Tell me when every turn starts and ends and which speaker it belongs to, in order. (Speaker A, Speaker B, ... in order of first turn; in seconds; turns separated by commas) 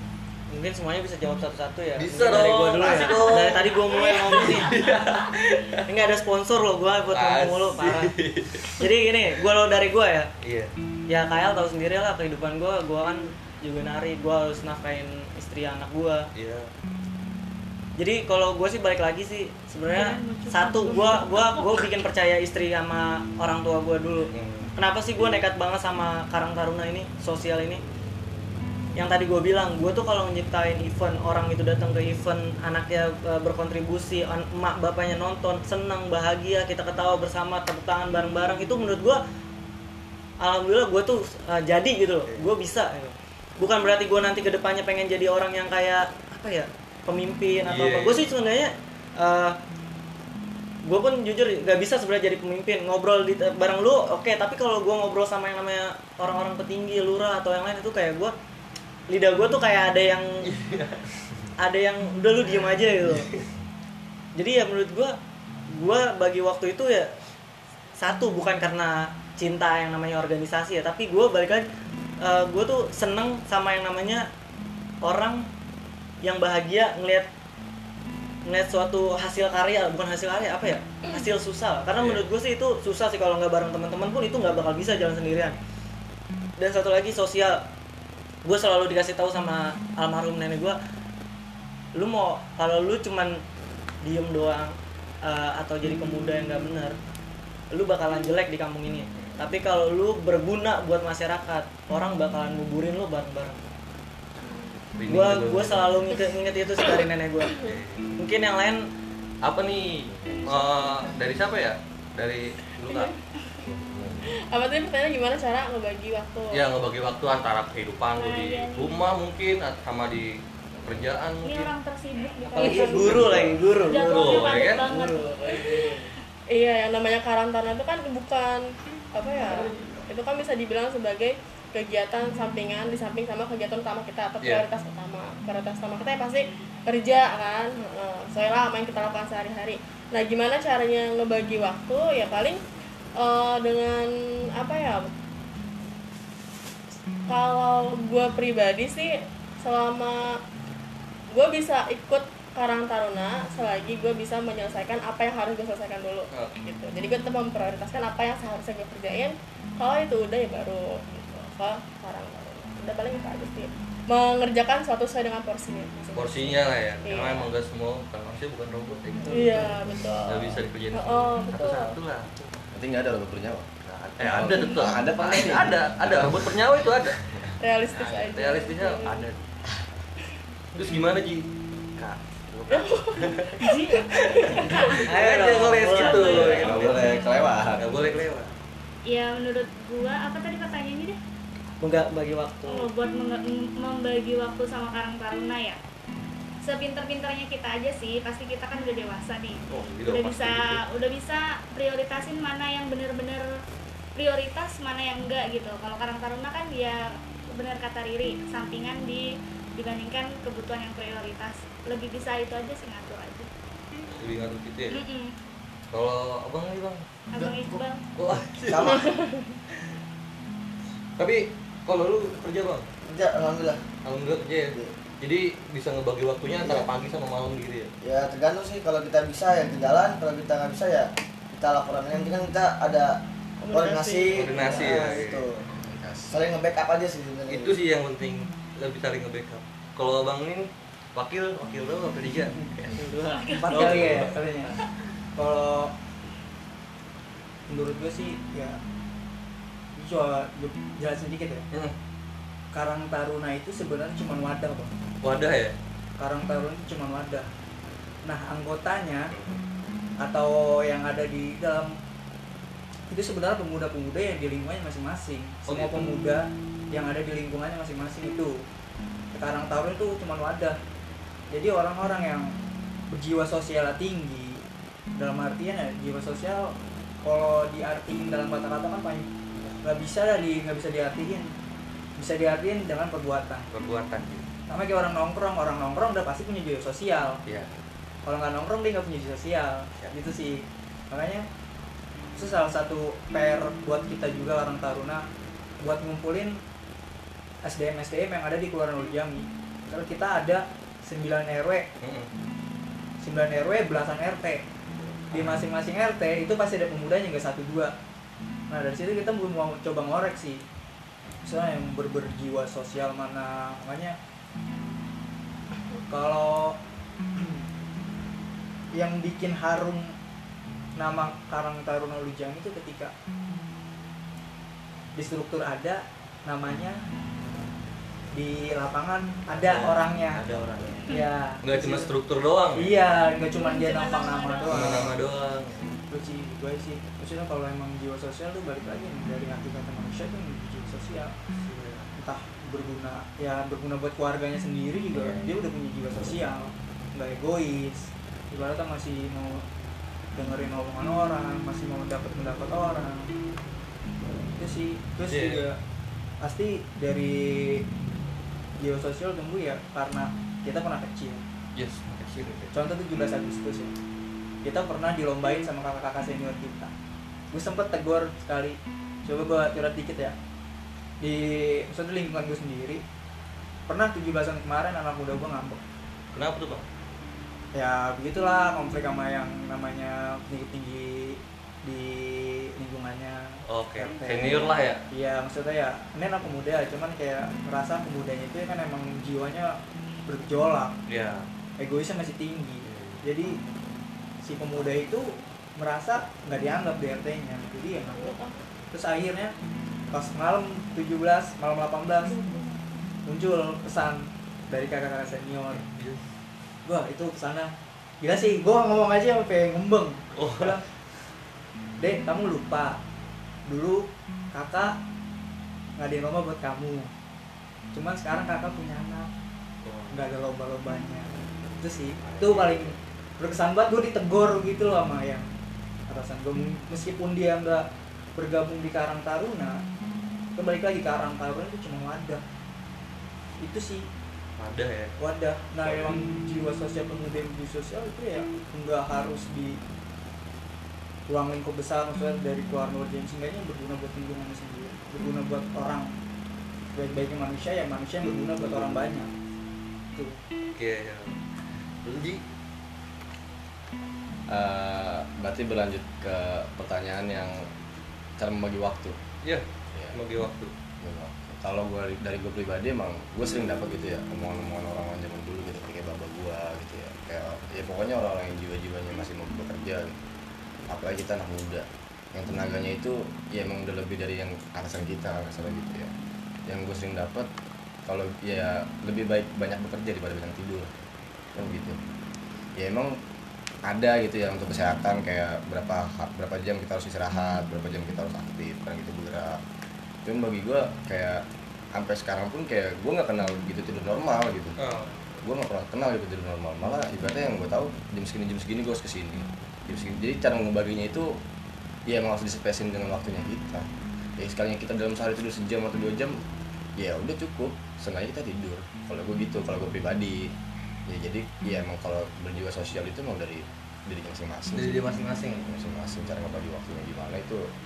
Speaker A: 0.5-4.7, Speaker B: 2.0-5.8, Speaker A: 5.8-8.1, Speaker B: 7.1-8.8, Speaker A: 8.7-10.3, Speaker B: 10.4-10.7, Speaker A: 11.1-16.2, Speaker B: 16.3-16.7, Speaker A: 18.0-27.8, Speaker C: 20.2-21.2, Speaker B: 24.3-24.7, Speaker A: 28.9-39.2, Speaker A: 40.4-49.6, Speaker B: 42.3-42.5, Speaker B: 47.7-48.3, Speaker A: 50.9-58.3, Speaker A: 59.1-60.3, Speaker B: 60.4-61.4, Speaker A: 61.6-63.3, Speaker B: 63.1-63.4, Speaker A: 64.4-65.1, Speaker A: 65.8-67.1, Speaker A: 68.0-71.6, Speaker A: 72.2-74.2, Speaker A: 75.0-75.5, Speaker A: 76.2-77.3, Speaker A: 78.5-85.5, Speaker B: 82.0-82.2, Speaker A: 86.6-87.6, Speaker A: 88.4-90.8, Speaker A: 91.9-93.4, Speaker A: 94.0-94.7, Speaker A: 95.2-96.9, Speaker A: 97.7-103.6, Speaker C: 104.4-104.8, Speaker B: 104.9-106.1, Speaker A: 105.1-107.6, Speaker B: 107.6-108.1, Speaker A: 108.2-108.8, Speaker B: 109.4-113.1, Speaker D: 110.0-110.8, Speaker D: 113.6-114.3, Speaker C: 114.2-116.6, Speaker B: 116.5-121.7, Speaker E: 118.2-119.0, Speaker D: 120.7-121.1, Speaker E: 121.4-126.1, Speaker C: 122.4-123.1, Speaker A: 122.6-126.0, Speaker B: 122.6-124.9, Speaker C: 126.5-142.6, Speaker B: 134.4-134.7, Speaker C: 143.2-145.1, Speaker C: 147.3-150.4, Speaker C: 151.3-167.5, Speaker B: 156.3-156.6, Speaker B: 166.2-172.5, Speaker C: 169.2-171.9, Speaker D: 172.7-176.9, Speaker B: 173.9-177.2, Speaker C: 177.6-179.3, Speaker D: 177.9-178.2, Speaker B: 178.1-179.4, Speaker B: 180.7-183.5, Speaker C: 182.7-183.7, Speaker E: 183.6-187.4, Speaker B: 184.1-187.1, Speaker A: 184.9-186.6, Speaker D: 186.3-188.0, Speaker B: 187.8-188.6, Speaker E: 189.1-191.2, Speaker A: 191.8-192.9, Speaker E: 192.7-195.8, Speaker E: 196.6-203.5, Speaker B: 199.7-200.8, Speaker E: 204.1-213.5, Speaker B: 214.1-215.0, Speaker E: 214.9-215.3, Speaker B: 215.9-217.1, Speaker E: 217.3-218.0, Speaker B: 218.2-219.0, Speaker F: 218.7-219.2, Speaker B: 221.2-222.9, Speaker F: 223.1-223.8, Speaker B: 224.0-227.9, Speaker F: 226.6-226.8, Speaker F: 228.0-231.1, Speaker F: 231.6-233.2, Speaker A: 233.6-234.3, Speaker F: 233.7-235.7, Speaker B: 234.3-235.4, Speaker D: 235.7-236.5, Speaker F: 236.3-237.8, Speaker B: 237.5-242.9, Speaker A: 243.0-243.5, Speaker E: 243.3-244.0, Speaker G: 243.5-244.8, Speaker B: 243.7-244.8, Speaker G: 245.3-245.9, Speaker G: 247.7-248.8, Speaker G: 249.9-251.7, Speaker G: 252.7-254.9, Speaker B: 255.2-255.7, Speaker G: 256.2-257.5, Speaker G: 258.2-259.3, Speaker B: 259.3-259.6, Speaker G: 260.2-261.9, Speaker G: 263.1-268.5, Speaker B: 265.7-266.1, Speaker G: 269.3-270.8, Speaker G: 271.5-272.5, Speaker G: 273.1-274.6, Speaker G: 275.2-279.2, Speaker G: 279.8-281.5, Speaker G: 282.2-283.7, Speaker B: 283.7-284.4, Speaker G: 284.7-287.4, Speaker B: 287.4-287.7, Speaker G: 288.2-291.4, Speaker G: 292.4-295.2, Speaker G: 295.8-296.6, Speaker G: 297.6-301.9, Speaker B: 302.0-302.3, Speaker G: 303.2-304.6, Speaker G: 305.3-307.9, Speaker B: 305.3-305.6, Speaker G: 308.7-310.6, Speaker G: 311.4-314.2, Speaker G: 316.1-316.8, Speaker G: 317.4-317.6, Speaker G: 318.9-320.1, Speaker G: 320.9-323.1, Speaker G: 325.1-327.0, Speaker G: 328.3-330.5, Speaker B: 329.5-331.0, Speaker E: 331.0-331.3, Speaker G: 331.1-332.1, Speaker B: 331.6-332.9, Speaker G: 332.7-335.2, Speaker E: 333.6-335.0, Speaker B: 334.7-336.0, Speaker G: 336.1-341.3, Speaker B: 341.6-342.1, Speaker G: 342.1-349.6, Speaker D: 345.1-345.5, Speaker G: 350.3-353.3, Speaker G: 354.6-355.8, Speaker B: 355.2-355.6, Speaker G: 356.4-357.8, Speaker G: 358.8-361.4, Speaker B: 361.7-362.7, Speaker G: 362.7-363.9, Speaker G: 364.6-366.9, Speaker G: 367.5-370.3, Speaker G: 371.2-373.0, Speaker G: 373.9-375.8, Speaker B: 376.3-376.8, Speaker G: 377.7-390.9, Speaker B: 383.7-385.0, Speaker B: 391.1-391.5, Speaker G: 391.8-393.6, Speaker B: 392.8-393.2, Speaker G: 394.4-398.4, Speaker C: 397.9-398.6, Speaker G: 398.9-399.5, Speaker G: 400.1-402.5, Speaker G: 403.2-405.8, Speaker B: 405.7-406.2, Speaker G: 406.9-410.9, Speaker B: 410.4-410.8, Speaker G: 412.0-413.0, Speaker G: 413.6-414.9, Speaker G: 416.0-417.1, Speaker G: 417.9-419.3, Speaker B: 419.8-420.2, Speaker G: 420.1-425.5, Speaker B: 422.2-422.9, Speaker G: 426.1-429.8, Speaker G: 430.6-432.4, Speaker G: 433.6-434.1, Speaker B: 434.6-435.1, Speaker G: 435.2-439.8, Speaker B: 435.8-436.1, Speaker G: 441.3-446.1, Speaker G: 446.9-449.3, Speaker G: 450.1-450.4, Speaker B: 450.8-451.4, Speaker B: 452.0-452.4, Speaker D: 454.5-457.7, Speaker D: 458.4-459.2, Speaker B: 459.4-460.7, Speaker D: 461.0-470.1, Speaker D: 470.9-476.1, Speaker D: 476.7-477.5, Speaker D: 478.1-480.9, Speaker D: 481.5-482.0, Speaker D: 482.8-483.1, Speaker D: 483.8-489.6, Speaker D: 490.2-494.8, Speaker B: 494.8-495.1, Speaker D: 495.4-501.4, Speaker D: 502.1-506.4, Speaker D: 507.0-510.5, Speaker D: 511.1-517.6, Speaker B: 514.7-515.6